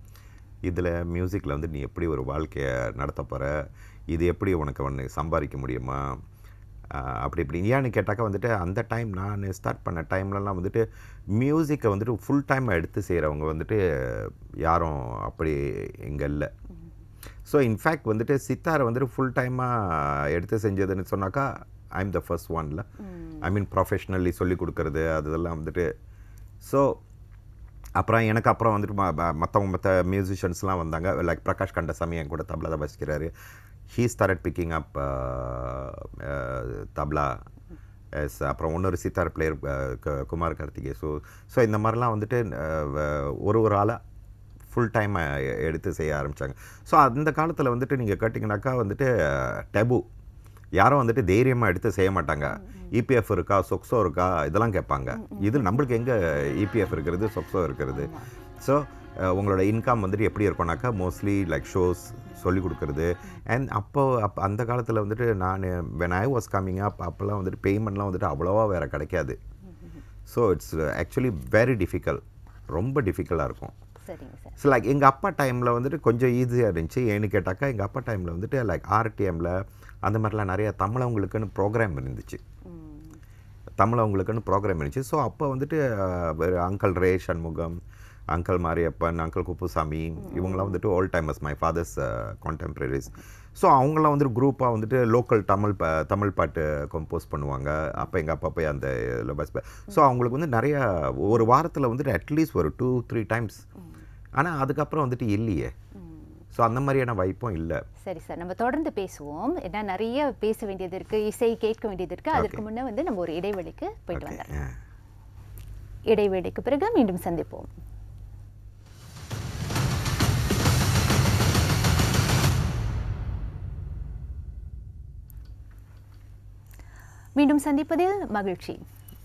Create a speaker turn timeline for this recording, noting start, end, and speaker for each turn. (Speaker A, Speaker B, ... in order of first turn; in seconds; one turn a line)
Speaker A: 0.7-6.2
Speaker A: 6.9-16.5
Speaker A: 17.5-22.9
Speaker B: 23.1-23.4
Speaker A: 23.4-25.9
Speaker A: 26.6-27.0
Speaker A: 28.0-33.3
Speaker A: 33.9-37.4
Speaker A: 38.1-44.0
Speaker A: 44.7-50.1
Speaker A: 50.8-69.4
Speaker B: 55.2-55.5
Speaker B: 58.0-58.3
Speaker A: 70.3-73.8
Speaker B: 74.1-74.6
Speaker A: 74.6-82.4
Speaker B: 82.7-83.2
Speaker A: 83.8-103.6
Speaker A: 104.4-105.7
Speaker A: 106.5-107.8
Speaker B: 108.0-114.5
Speaker A: 112.3-112.6
Speaker A: 114.1-114.8
Speaker B: 116.1-117.7
Speaker B: 127.4-128.8